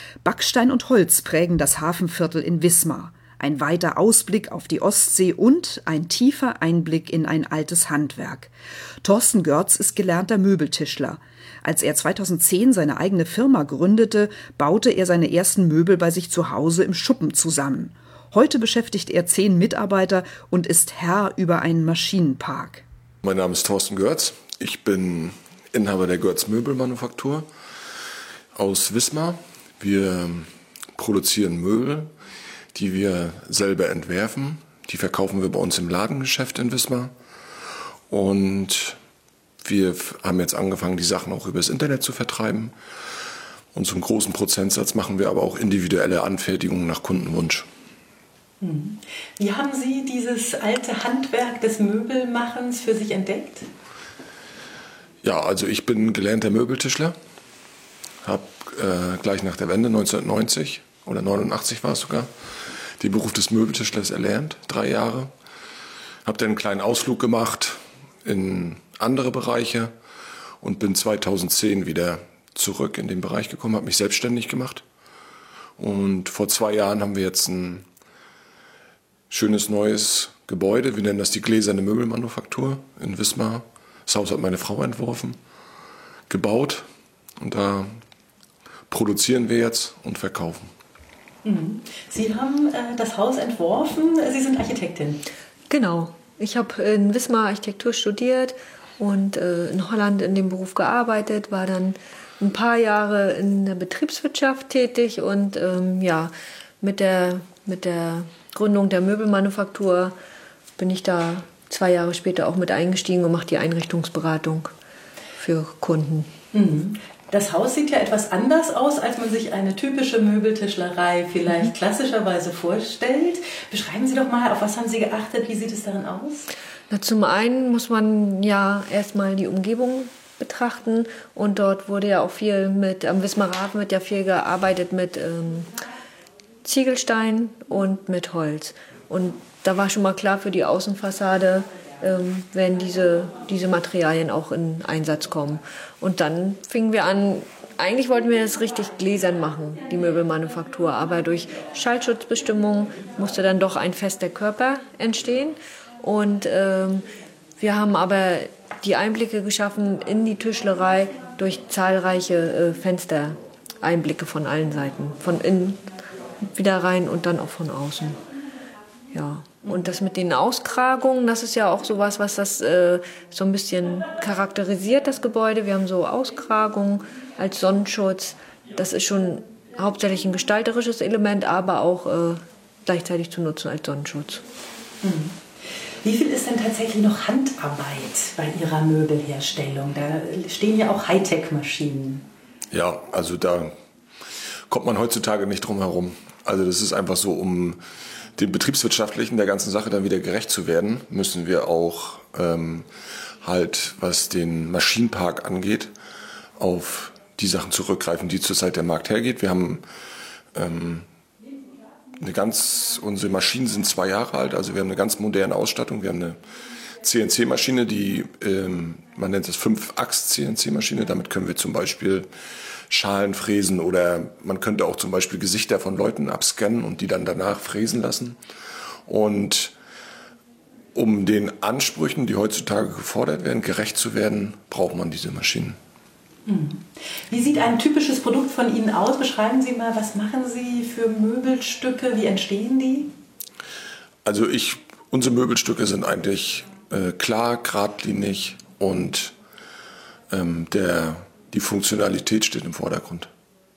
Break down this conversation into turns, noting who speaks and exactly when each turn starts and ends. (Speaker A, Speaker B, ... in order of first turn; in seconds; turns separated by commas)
Speaker A: 0.2-8.5, Speaker A: 9.0-22.8, Speaker B: 23.2-27.5, Speaker B: 28.5-32.1, Speaker B: 32.7-37.1, Speaker B: 38.1-39.0, Speaker B: 39.6-42.7, Speaker B: 43.7-47.7, Speaker C: 48.6-53.7, Speaker B: 55.2-57.2, Speaker B: 58.2-62.3, Speaker B: 63.0-65.3, Speaker B: 66.2-69.9, Speaker B: 70.6-74.8, Speaker B: 75.8-77.8, Speaker B: 79.3-85.4, Speaker B: 86.3-86.9, Speaker B: 87.4-88.0, Speaker B: 88.9-90.7, Speaker C: 91.4-95.2, Speaker D: 95.7-110.1, Speaker D: 110.8-114.7, Speaker D: 115.4-116.3, Speaker C: 116.5-126.5, Speaker D: 126.9-135.7, Speaker D: 136.6-157.1, Speaker D: 157.6-165.8, Speaker D: 166.4-168.2, Speaker D: 169.1-184.4, Speaker C: 185.0-185.3, Speaker C: 186.0-192.2, Speaker B: 192.7-193.7, Speaker B: 194.7-197.8, Speaker B: 198.4-202.9, Speaker B: 203.4-205.9, Speaker B: 206.6-209.8, Speaker B: 210.5-211.1, Speaker B: 212.2-216.4, Speaker B: 217.0-222.3, Speaker B: 222.9-228.4, Speaker B: 229.1-229.7, Speaker B: 230.9-235.8, Speaker C: 236.5-243.1, Speaker B: 244.2-249.3, Speaker B: 250.3-253.3